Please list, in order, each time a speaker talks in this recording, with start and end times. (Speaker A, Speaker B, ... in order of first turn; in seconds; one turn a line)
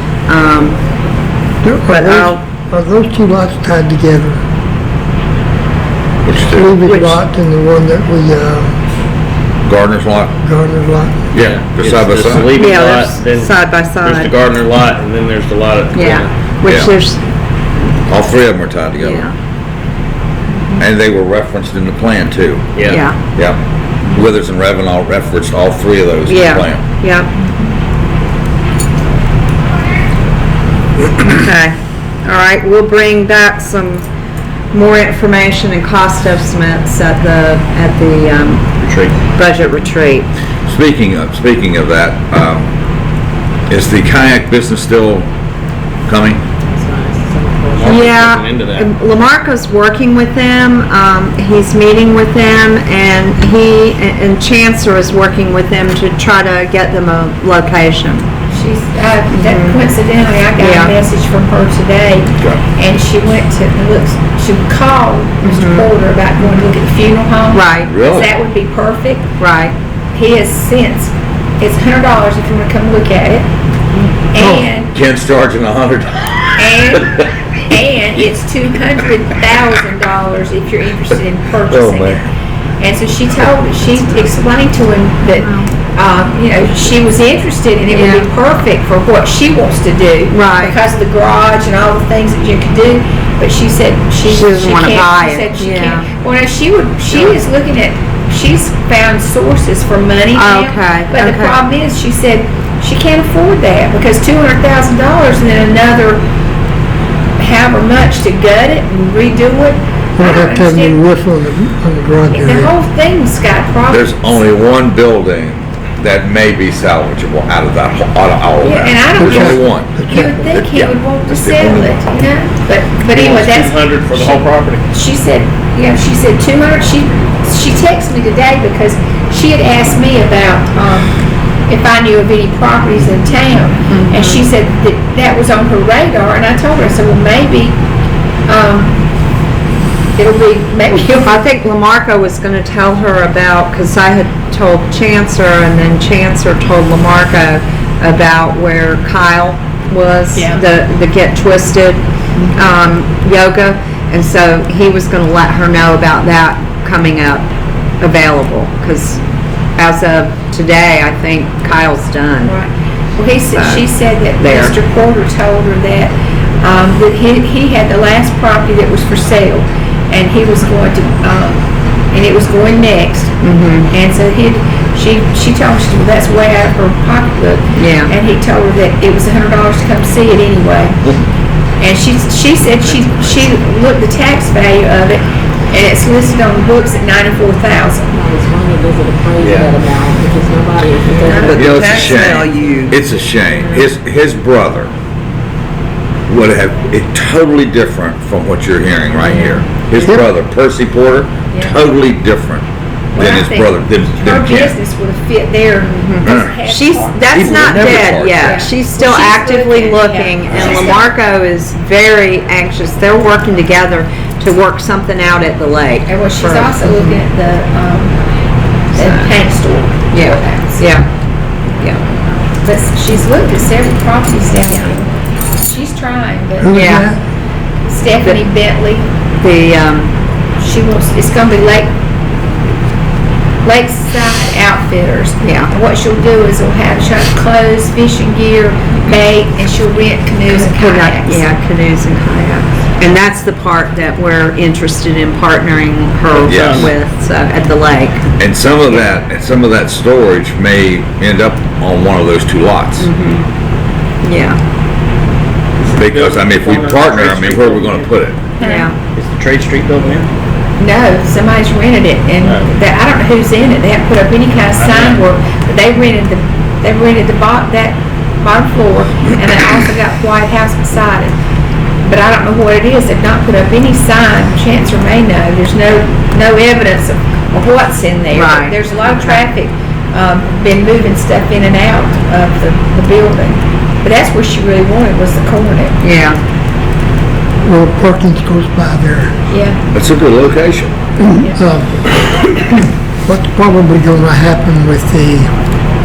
Speaker A: 0.3-0.8
Speaker B: 1.6-4.4
Speaker A: 1.9-2.4
Speaker C: 6.2-6.7
Speaker B: 6.5-8.8
Speaker A: 6.8-7.2
Speaker C: 9.6-10.3
Speaker B: 10.4-11.2
Speaker C: 11.3-12.6
Speaker D: 11.3-16.3
Speaker A: 12.5-14.3
Speaker A: 15.9-17.2
Speaker C: 16.6-16.9
Speaker C: 18.1-19.2
Speaker A: 19.0-19.3
Speaker C: 20.8-22.8
Speaker D: 22.7-23.0
Speaker A: 22.9-23.2
Speaker C: 24.1-26.8
Speaker A: 26.2-27.3
Speaker A: 31.2-34.0
Speaker A: 34.7-38.6
Speaker D: 38.8-39.1
Speaker A: 39.4-40.3
Speaker C: 40.7-42.7
Speaker C: 43.7-45.3
Speaker C: 46.1-46.4
Speaker E: 46.7-47.9
Speaker D: 47.7-48.9
Speaker A: 47.8-58.2
Speaker F: 58.5-69.2
Speaker A: 59.3-59.8
Speaker A: 60.6-60.9
Speaker A: 65.4-65.8
Speaker A: 67.5-67.9
Speaker C: 67.8-68.3
Speaker A: 69.4-69.7
Speaker F: 70.1-73.5
Speaker F: 74.3-74.9
Speaker B: 74.4-74.7
Speaker C: 74.9-77.0
Speaker F: 76.6-82.2
Speaker C: 81.7-82.2
Speaker F: 82.8-106.2
Speaker A: 85.3-85.7
Speaker A: 87.9-88.2
Speaker A: 90.3-90.8
Speaker A: 94.2-96.1
Speaker A: 100.3-101.6
Speaker F: 107.4-111.0
Speaker B: 110.2-112.7
Speaker F: 112.3-114.4
Speaker C: 113.9-122.0
Speaker F: 118.6-137.8
Speaker B: 119.2-120.5
Speaker D: 123.1-124.9
Speaker A: 133.9-134.4
Speaker F: 138.5-139.0
Speaker F: 140.2-141.4
Speaker A: 141.2-152.0
Speaker F: 150.3-150.6
Speaker A: 152.5-157.5
Speaker A: 158.0-159.2
Speaker A: 159.8-162.5
Speaker F: 162.4-171.6
Speaker A: 163.5-164.8
Speaker F: 172.1-173.3
Speaker A: 173.4-173.9
Speaker F: 173.9-181.0
Speaker A: 177.8-178.1
Speaker F: 181.8-188.1
Speaker E: 188.1-191.8
Speaker C: 189.4-189.7
Speaker A: 191.3-192.9
Speaker C: 191.5-194.9
Speaker C: 196.3-204.8
Speaker A: 199.2-199.6
Speaker F: 203.1-211.1
Speaker A: 206.0-217.2
Speaker C: 206.2-206.6
Speaker C: 207.3-208.6
Speaker F: 216.1-218.2
Speaker F: 218.9-220.8
Speaker A: 218.9-219.3
Speaker A: 220.1-221.1
Speaker F: 222.6-225.1
Speaker F: 225.6-226.8
Speaker B: 226.6-227.2
Speaker A: 226.7-227.1
Speaker F: 227.9-229.1
Speaker A: 229.3-230.1
Speaker F: 230.6-231.9
Speaker F: 233.6-241.4
Speaker A: 235.4-235.7
Speaker A: 240.5-248.2
Speaker C: 246.4-246.9
Speaker D: 246.4-246.9
Speaker C: 248.4-253.1
Speaker A: 253.0-253.4
Speaker A: 254.2-254.6
Speaker D: 255.8-258.1
Speaker C: 255.9-258.4
Speaker F: 258.6-258.9
Speaker A: 258.6-258.9
Speaker D: 259.1-260.3
Speaker F: 260.8-271.3
Speaker D: 262.4-262.7
Speaker D: 264.8-265.2
Speaker F: 272.0-286.0
Speaker A: 278.3-279.4
Speaker A: 286.0-286.4
Speaker B: 287.6-289.3
Speaker F: 289.5-289.8
Speaker C: 289.9-290.9
Speaker B: 291.2-292.7
Speaker B: 293.3-295.5